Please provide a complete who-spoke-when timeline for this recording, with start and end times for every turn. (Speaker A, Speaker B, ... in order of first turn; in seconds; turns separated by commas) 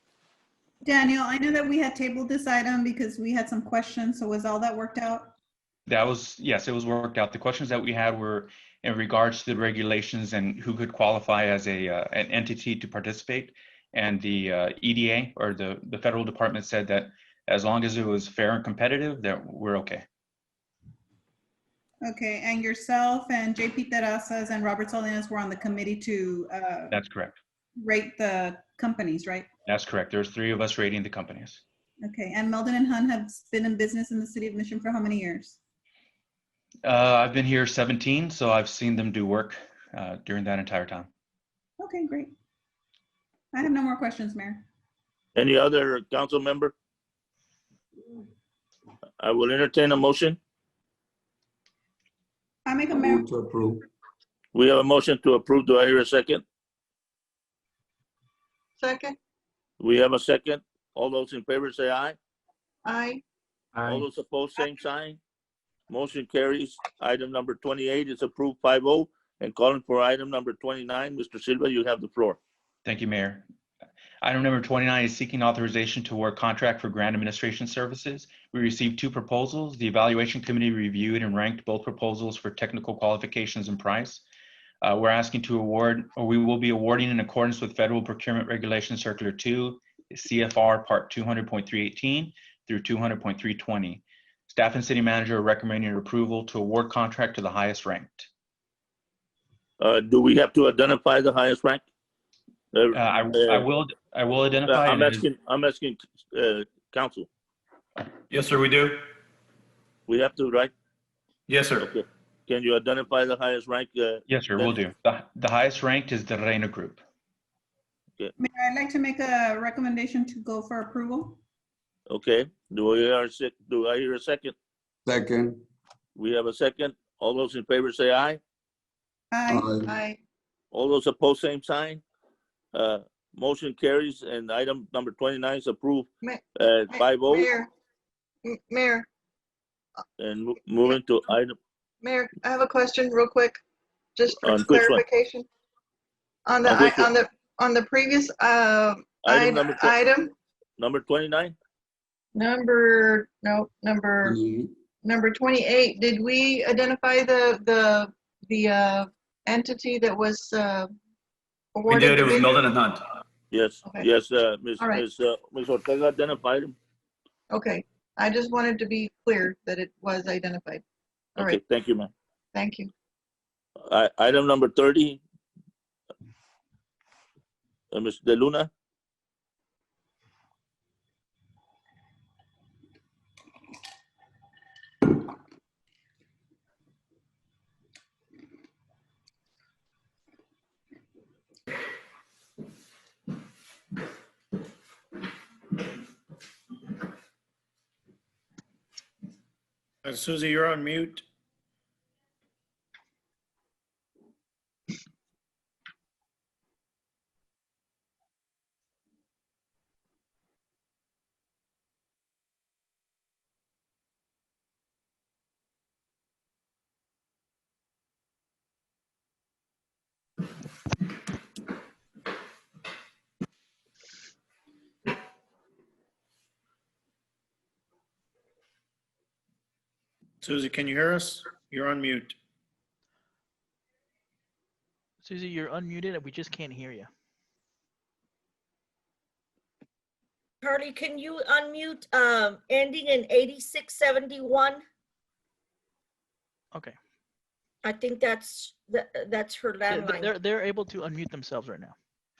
Speaker A: 0.8-5.3, Speaker B: 5.9-20.0, Speaker A: 22.1-27.0, Speaker B: 26.9-27.4, Speaker A: 27.8-29.5, Speaker B: 29.6-31.6, Speaker A: 32.0-35.6, Speaker B: 36.8-41.1, Speaker A: 41.8-42.3, Speaker A: 43.5-44.6, Speaker C: 45.3-46.7, Speaker C: 49.2-50.4, Speaker A: 52.6-53.2, Speaker D: 52.9-53.8, Speaker C: 54.5-56.4, Speaker E: 58.8-59.1, Speaker C: 59.8-62.2, Speaker E: 62.8-63.2, Speaker C: 63.8-65.2, Speaker C: 65.9-72.4, Speaker B: 72.8-73.4, Speaker B: 74.2-84.2, Speaker B: 84.8-98.3, Speaker C: 99.8-101.8, Speaker C: 102.7-103.6, Speaker B: 102.9-105.3, Speaker C: 104.7-107.3, Speaker F: 108.3-109.0, Speaker C: 110.1-110.7, Speaker F: 111.5-111.9, Speaker C: 111.8-114.7, Speaker B: 114.3-117.0, Speaker A: 118.4-121.4, Speaker C: 122.1-124.5, Speaker D: 125.0-125.6, Speaker C: 126.2-128.4, Speaker A: 129.3-129.7, Speaker D: 129.5-129.9, Speaker E: 129.5-130.2, Speaker C: 130.7-132.0, Speaker C: 132.7-137.5, Speaker E: 136.2-137.7, Speaker E: 138.4-139.1, Speaker C: 140.2-141.6, Speaker E: 142.0-143.6, Speaker E: 144.2-145.5, Speaker C: 144.4-145.0, Speaker E: 146.4-150.3, Speaker C: 146.6-147.1, Speaker C: 149.2-150.0, Speaker C: 150.8-151.5, Speaker E: 152.3-154.4, Speaker D: 154.2-154.7, Speaker E: 155.0-160.9, Speaker E: 161.7-162.6, Speaker F: 161.9-163.0, Speaker C: 163.5-166.8, Speaker E: 164.8-165.0, Speaker E: 167.5-170.8, Speaker C: 171.4-172.1, Speaker E: 172.5-172.9, Speaker C: 173.8-175.2, Speaker C: 177.9-178.7, Speaker G: 200.0-201.2, Speaker G: 230.4-232.3, Speaker H: 235.2-237.1, Speaker I: 240.6-244.8, Speaker I: 247.8-250.3, Speaker H: 249.9-251.9